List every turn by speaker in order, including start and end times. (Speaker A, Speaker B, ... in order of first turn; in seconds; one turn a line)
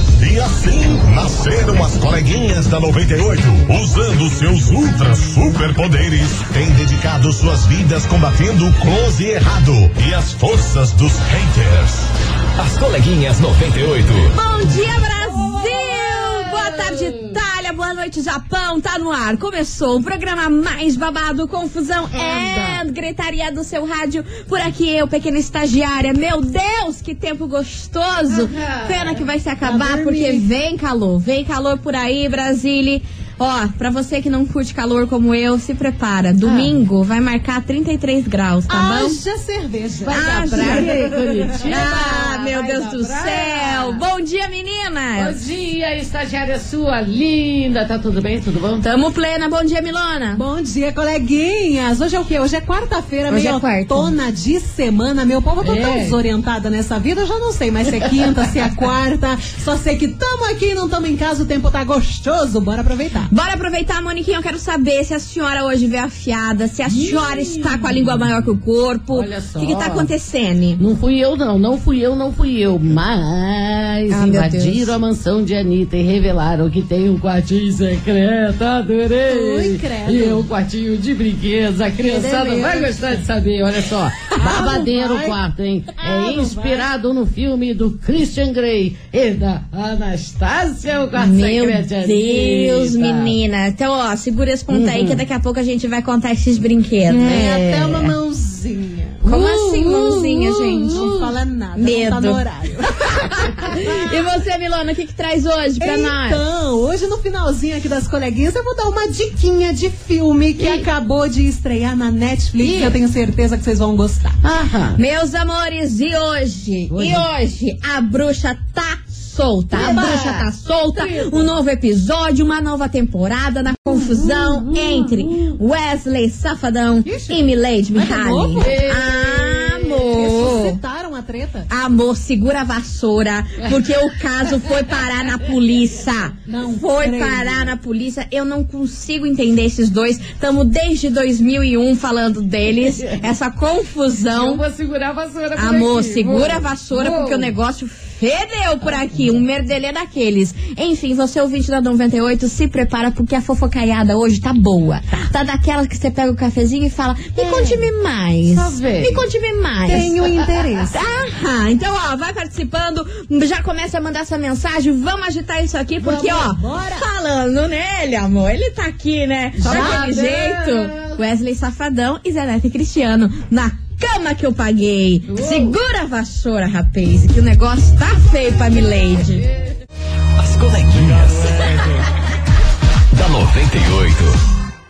Speaker A: 0.2-12.1
Speaker B: 12.6-14.3
Speaker C: 14.3-39.2
Speaker D: 15.2-17.3
Speaker D: 22.1-22.8
Speaker D: 28.3-29.2
Speaker E: 29.6-30.4
Speaker D: 36.4-36.8
Speaker E: 38.7-42.3
Speaker C: 40.1-41.0
Speaker D: 40.5-44.0
Speaker C: 41.6-45.4
Speaker D: 45.2-48.8
Speaker C: 48.8-50.4
Speaker E: 50.4-63.3
Speaker C: 53.3-54.1
Speaker D: 55.6-56.2
Speaker C: 63.3-70.8
Speaker D: 66.9-68.0
Speaker D: 69.1-70.1
Speaker D: 70.8-93.4
Speaker C: 74.1-74.9
Speaker E: 79.3-80.5
Speaker E: 82.0-83.0
Speaker E: 84.4-85.4
Speaker E: 86.0-86.9
Speaker C: 91.2-98.1
Speaker D: 94.7-95.2
Speaker E: 97.1-99.2
Speaker D: 97.2-97.6
Speaker D: 99.2-101.3
Speaker C: 99.3-101.1
Speaker E: 100.9-104.2
Speaker C: 101.8-102.4
Speaker C: 103.4-106.4
Speaker E: 105.8-114.4
Speaker D: 110.6-110.9
Speaker D: 112.6-113.0
Speaker D: 114.4-115.0
Speaker C: 115.0-130.8
Speaker D: 116.9-117.3
Speaker D: 119.7-121.5
Speaker E: 119.8-120.2
Speaker D: 123.9-125.6
Speaker E: 127.1-128.9
Speaker D: 128.6-130.0
Speaker E: 130.1-131.7
Speaker C: 131.7-144.6
Speaker E: 136.5-137.6
Speaker D: 144.3-147.5
Speaker C: 145.6-160.1
Speaker D: 148.9-149.4
Speaker D: 157.4-157.9
Speaker D: 158.4-159.2
Speaker E: 159.9-161.0
Speaker C: 160.9-179.4
Speaker E: 166.0-167.1
Speaker E: 169.6-170.1
Speaker D: 169.7-171.2
Speaker D: 175.3-175.8
Speaker B: 180.4-181.8
Speaker B: 183.1-184.4